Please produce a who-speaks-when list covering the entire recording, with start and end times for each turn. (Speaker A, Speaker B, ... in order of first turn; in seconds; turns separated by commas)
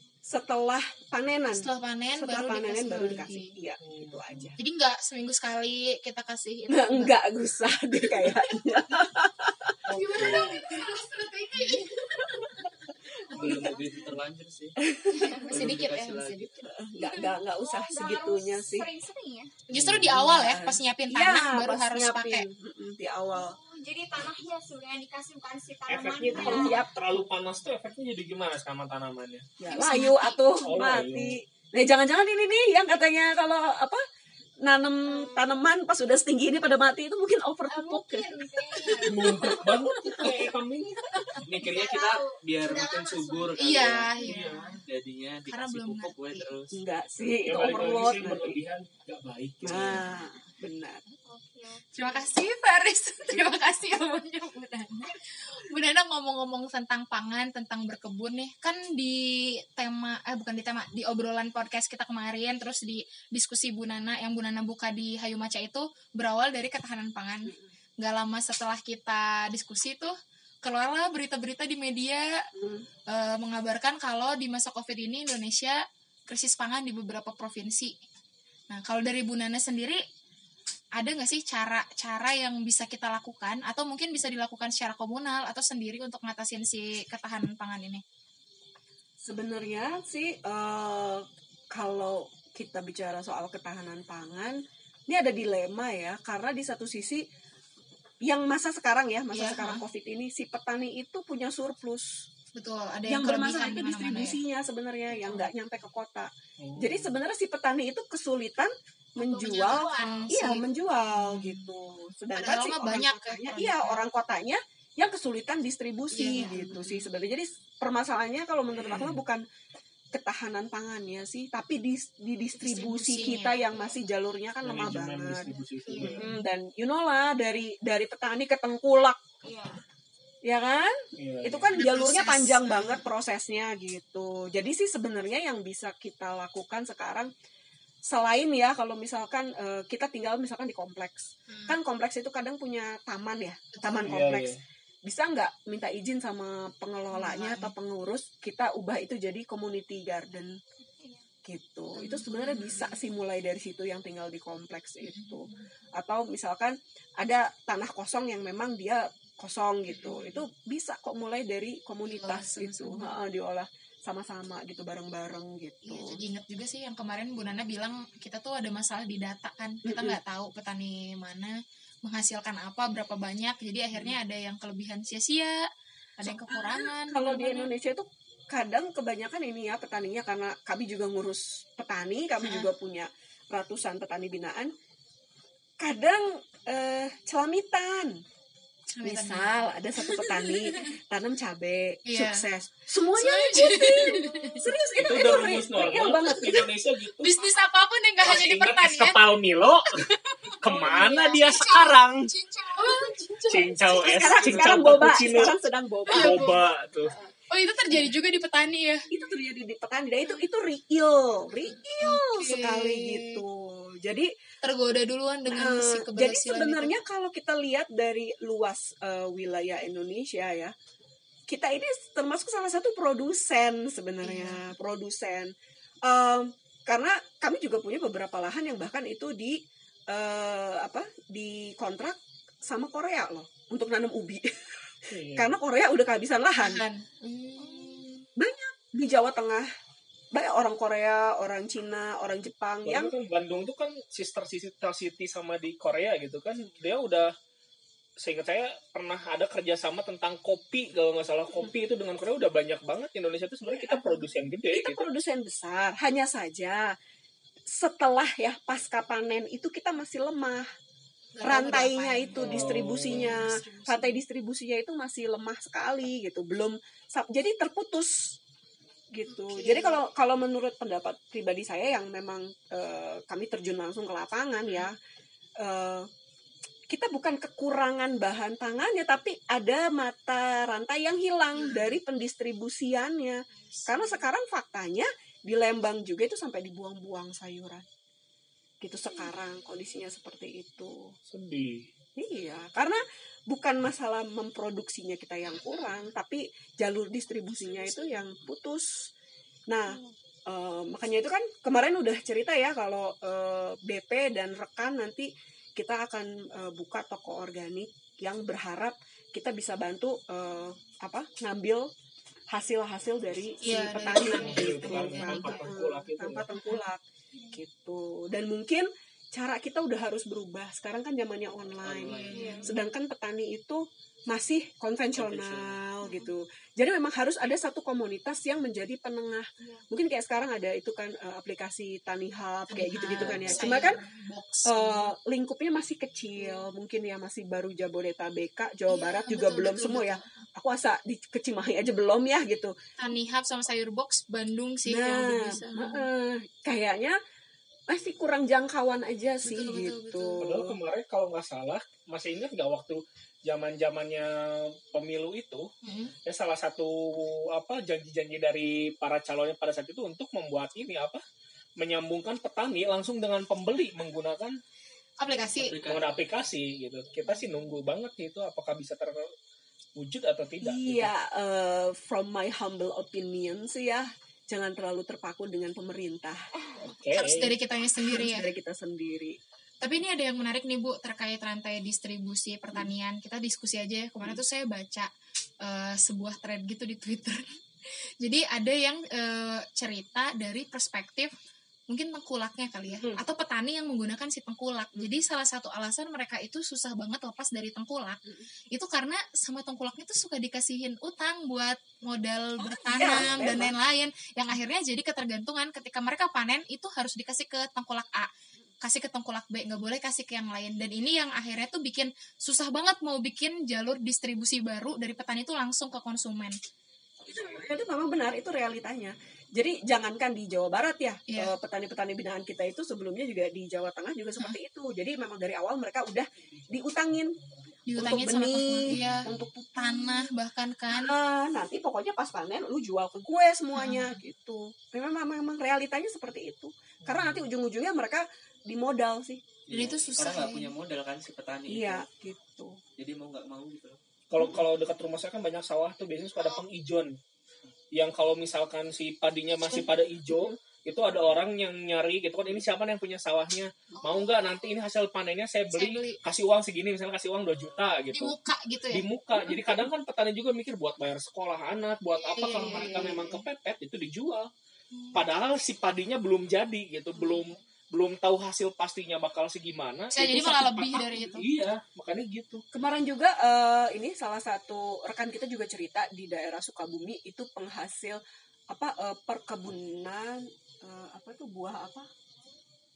Speaker A: 0.2-4.6, Speaker B: 1.5-3.5, Speaker C: 3.8-4.5, Speaker B: 4.6-7.1, Speaker A: 6.7-10.4, Speaker B: 9.9-12.6, Speaker C: 9.9-10.6, Speaker D: 13.3-16.4, Speaker A: 13.3-13.7, Speaker E: 13.4-14.0, Speaker A: 14.8-15.4, Speaker E: 15.1-15.7, Speaker B: 15.2-17.1, Speaker A: 16.7-18.9, Speaker E: 17.0-19.5, Speaker B: 19.7-22.4, Speaker C: 19.7-20.2, Speaker A: 20.1-23.6, Speaker E: 23.3-26.8, Speaker C: 25.9-29.5, Speaker A: 26.3-26.9, Speaker A: 29.6-34.0, Speaker B: 29.7-30.4, Speaker C: 30.6-31.4, Speaker A: 34.6-40.5, Speaker E: 35.0-35.6, Speaker E: 37.6-39.7, Speaker C: 39.0-41.0, Speaker D: 41.4-46.8, Speaker E: 41.5-44.5, Speaker B: 43.6-44.6, Speaker C: 44.3-44.6, Speaker B: 45.5-46.5, Speaker A: 46.7-48.6, Speaker C: 47.4-50.0, Speaker A: 49.6-51.0, Speaker E: 51.2-52.3, Speaker B: 51.9-72.3, Speaker A: 72.5-72.8, Speaker B: 73.1-77.9, Speaker B: 78.7-80.0, Speaker B: 81.0-88.0, Speaker A: 89.2-97.2, Speaker A: 98.2-102.3, Speaker B: 99.3-99.8, Speaker B: 102.5-104.4, Speaker A: 103.1-119.4, Speaker C: 106.6-107.1, Speaker E: 109.2-110.4, Speaker B: 109.5-110.6, Speaker B: 111.2-111.7, Speaker B: 112.3-114.0, Speaker B: 116.1-117.0, Speaker E: 116.3-116.6, Speaker C: 118.8-119.2, Speaker A: 120.1-129.2, Speaker B: 122.6-123.6, Speaker C: 124.6-126.3, Speaker B: 125.8-126.3, Speaker E: 129.4-129.8, Speaker A: 130.4-137.3, Speaker C: 131.2-131.8, Speaker B: 131.8-133.0, Speaker A: 138.1-144.5, Speaker B: 143.7-144.1, Speaker C: 144.0-144.6, Speaker A: 145.0-150.5, Speaker B: 147.1-147.7, Speaker A: 151.4-166.2, Speaker B: 152.0-152.9, Speaker B: 155.0-155.7, Speaker B: 159.9-160.4, Speaker B: 162.1-163.1, Speaker B: 165.8-171.5, Speaker A: 169.8-170.2, Speaker B: 172.0-175.6, Speaker B: 176.2-177.7, Speaker A: 176.2-184.7, Speaker B: 182.4-182.7, Speaker A: 185.8-188.2, Speaker B: 188.9-190.9, Speaker A: 189.0-196.7, Speaker B: 192.1-192.4, Speaker B: 193.1-194.7, Speaker C: 194.9-197.4, Speaker B: 197.2-199.2, Speaker C: 198.2-200.0, Speaker B: 200.1-204.7, Speaker C: 200.6-202.3, Speaker E: 202.4-203.4, Speaker C: 203.5-205.6, Speaker A: 204.0-206.5, Speaker B: 206.1-206.6, Speaker C: 206.1-207.1, Speaker B: 207.5-209.0, Speaker A: 209.1-214.3, Speaker B: 212.0-213.4, Speaker B: 214.6-216.9, Speaker A: 215.5-220.7, Speaker A: 221.5-225.5, Speaker B: 224.2-224.7, Speaker A: 226.1-229.6, Speaker A: 230.1-236.8, Speaker C: 235.1-235.5, Speaker B: 236.6-238.2, Speaker E: 237.6-238.1, Speaker A: 238.4-239.7, Speaker A: 240.3-243.1, Speaker C: 242.8-247.3, Speaker C: 248.2-255.1, Speaker A: 254.7-256.9, Speaker A: 257.7-260.7, Speaker B: 261.4-264.2, Speaker A: 261.4-268.4, Speaker C: 262.4-263.4, Speaker A: 269.1-274.9, Speaker B: 269.3-270.0, Speaker A: 275.6-276.1, Speaker A: 276.9-287.8, Speaker B: 281.5-281.9, Speaker B: 283.7-284.2, Speaker A: 288.8-291.1, Speaker C: 291.3-291.9, Speaker A: 292.1-299.1, Speaker B: 297.7-298.2, Speaker A: 299.7-311.9, Speaker A: 312.5-334.0, Speaker B: 313.6-315.7, Speaker C: 314.3-316.4, Speaker B: 316.6-316.8, Speaker D: 321.8-322.6, Speaker B: 322.2-322.7, Speaker E: 322.3-322.7, Speaker D: 325.1-325.8, Speaker B: 332.7-335.1, Speaker D: 333.3-333.6, Speaker A: 334.7-342.7, Speaker B: 338.9-340.4, Speaker B: 343.0-346.1, Speaker A: 344.9-347.1, Speaker A: 347.9-350.7, Speaker B: 349.4-350.4, Speaker C: 350.4-355.7, Speaker B: 355.8-356.1, Speaker C: 356.2-361.2, Speaker C: 361.8-364.6, Speaker B: 365.2-365.8, Speaker D: 365.6-366.0, Speaker C: 365.8-369.3, Speaker C: 370.0-371.1, Speaker A: 370.6-376.4, Speaker C: 376.8-377.5, Speaker B: 377.1-378.4, Speaker A: 378.0-379.3, Speaker B: 379.8-385.1, Speaker B: 385.6-387.6, Speaker B: 388.2-391.3, Speaker B: 391.9-408.3, Speaker A: 392.9-393.2, Speaker A: 402.9-403.7, Speaker B: 408.8-416.6, Speaker A: 417.3-427.4, Speaker C: 426.9-427.5, Speaker B: 427.9-431.1, Speaker A: 427.9-430.3, Speaker C: 428.9-429.5, Speaker A: 430.9-439.4, Speaker B: 433.7-434.2, Speaker C: 437.0-437.4, Speaker D: 439.7-442.0, Speaker B: 439.7-440.7, Speaker A: 441.7-442.8, Speaker D: 443.0-444.0, Speaker C: 444.3-447.2, Speaker C: 447.9-458.3, Speaker B: 453.9-454.4, Speaker B: 455.7-456.2, Speaker B: 458.1-459.0, Speaker C: 458.9-464.5, Speaker B: 462.1-463.4, Speaker A: 462.6-463.2, Speaker B: 464.9-465.2, Speaker C: 465.1-472.6, Speaker B: 470.1-471.5, Speaker A: 472.7-478.2, Speaker A: 478.7-482.1